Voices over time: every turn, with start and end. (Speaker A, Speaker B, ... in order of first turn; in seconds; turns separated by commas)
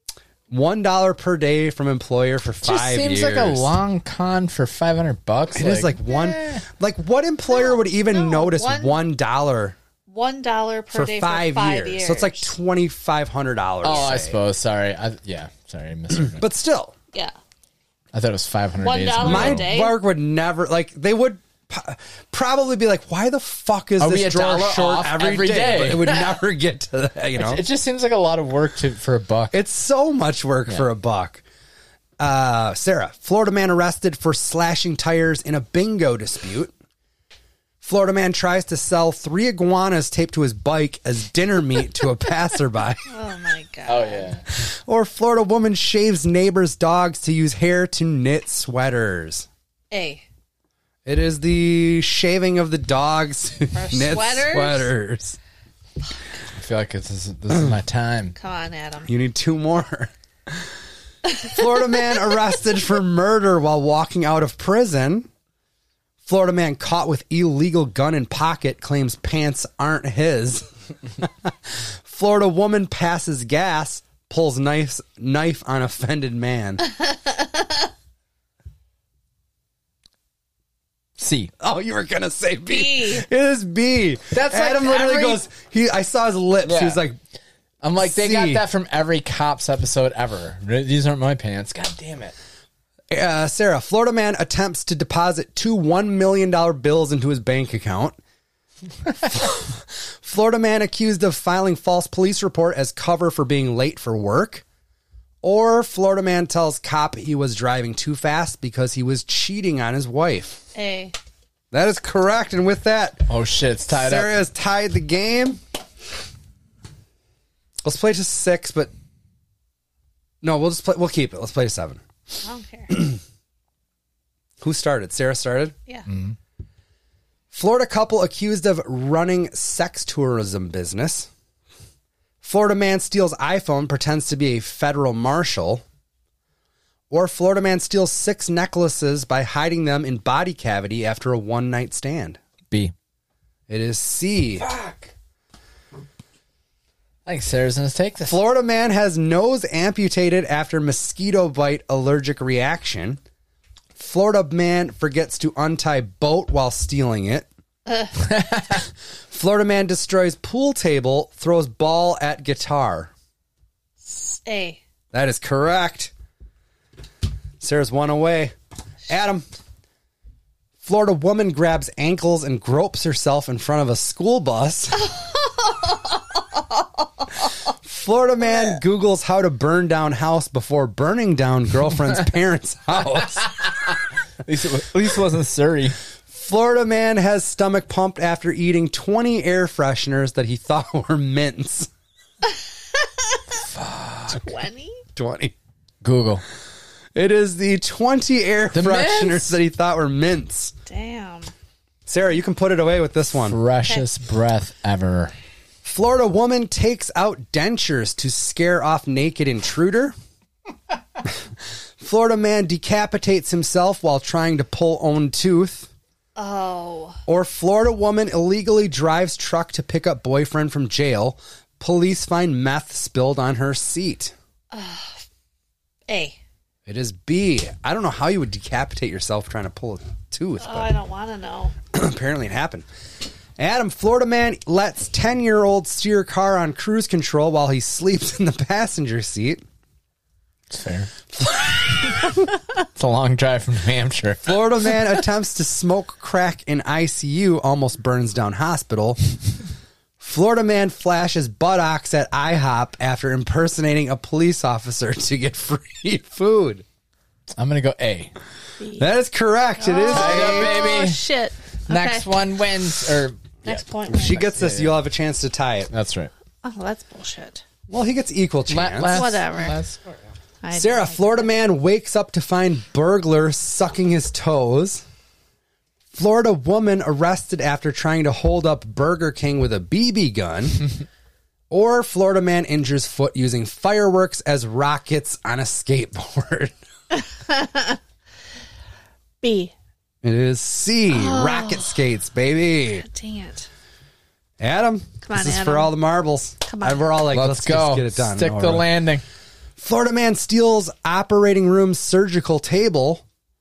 Speaker A: 0.5-3.7, Speaker B: 2.6-6.6, Speaker A: 5.5-9.8, Speaker C: 7.5-9.0, Speaker C: 10.1-12.5, Speaker A: 10.9-14.4, Speaker B: 13.8-16.4, Speaker C: 13.9-14.2, Speaker A: 16.3-16.9, Speaker B: 18.1-19.7, Speaker C: 18.8-20.0, Speaker A: 19.2-27.6, Speaker B: 24.0-26.4, Speaker B: 27.4-29.6, Speaker A: 29.5-31.4, Speaker A: 32.2-36.7, Speaker A: 37.8-43.1, Speaker C: 43.1-44.4, Speaker B: 43.9-44.4, Speaker A: 44.5-49.5, Speaker C: 49.9-50.2, Speaker A: 51.0-55.4, Speaker C: 53.7-54.9, Speaker B: 56.5-58.4, Speaker C: 58.4-59.1, Speaker A: 59.1-60.6, Speaker A: 61.4-65.3, Speaker A: 66.2-70.7, Speaker A: 71.2-76.9, Speaker C: 77.2-77.7, Speaker B: 81.2-81.5, Speaker A: 81.6-87.2, Speaker C: 82.7-83.3, Speaker B: 84.3-85.5, Speaker B: 86.6-87.0, Speaker B: 87.8-92.3, Speaker A: 88.0-88.6, Speaker A: 93.1-98.2, Speaker A: 99.2-104.6, Speaker A: 105.4-110.6, Speaker C: 110.8-111.2, Speaker A: 111.7-113.3, Speaker B: 113.3-114.3, Speaker A: 113.9-115.6, Speaker A: 117.8-118.9, Speaker A: 120.4-122.0, Speaker C: 122.4-123.0, Speaker A: 122.9-123.2, Speaker A: 124.6-125.8, Speaker B: 126.1-126.3, Speaker A: 127.5-131.3, Speaker A: 132.4-135.8, Speaker A: 137.1-142.4, Speaker A: 143.7-144.7, Speaker B: 144.6-145.1, Speaker B: 147.2-148.4, Speaker A: 148.3-153.2, Speaker A: 154.0-157.5, Speaker B: 158.4-158.7, Speaker A: 159.3-163.1, Speaker C: 164.0-164.8, Speaker A: 165.1-166.1, Speaker A: 167.6-168.5, Speaker A: 169.1-169.4, Speaker A: 170.8-175.1, Speaker A: 177.8-183.6, Speaker B: 184.4-186.0, Speaker A: 186.3-191.9, Speaker C: 193.0-193.4, Speaker B: 193.7-194.4, Speaker C: 194.3-195.0, Speaker A: 195.2-195.5, Speaker B: 196.0-196.4, Speaker A: 197.2-200.8, Speaker B: 198.7-199.5, Speaker C: 200.8-201.5, Speaker A: 202.1-203.6, Speaker B: 203.4-205.3, Speaker A: 205.8-210.2, Speaker A: 212.0-215.9, Speaker C: 216.4-217.2, Speaker A: 217.3-224.3, Speaker C: 224.7-225.2, Speaker C: 226.1-226.4, Speaker A: 226.9-230.9, Speaker C: 230.6-231.7, Speaker A: 231.9-232.9, Speaker A: 233.6-239.6, Speaker B: 240.7-241.1, Speaker A: 241.3-242.4, Speaker B: 242.9-244.7, Speaker A: 244.4-249.2, Speaker A: 250.2-256.9, Speaker B: 257.6-258.3, Speaker C: 258.8-259.1, Speaker A: 259.0-260.8, Speaker C: 259.8-262.3, Speaker B: 260.1-261.2, Speaker B: 261.9-265.0, Speaker C: 263.7-264.4, Speaker A: 263.7-265.9, Speaker B: 265.9-266.3, Speaker C: 266.6-267.6, Speaker A: 267.9-269.3, Speaker B: 268.7-270.2, Speaker C: 269.1-269.8, Speaker C: 270.6-271.5, Speaker A: 270.7-275.0, Speaker A: 276.1-280.9, Speaker A: 281.7-286.7, Speaker C: 287.2-288.0, Speaker C: 289.4-289.7, Speaker A: 290.2-293.1, Speaker C: 291.1-291.9, Speaker C: 292.9-293.7, Speaker A: 294.6-298.9, Speaker C: 295.2-295.9, Speaker C: 296.6-297.1, Speaker B: 297.3-299.2, Speaker A: 299.8-303.2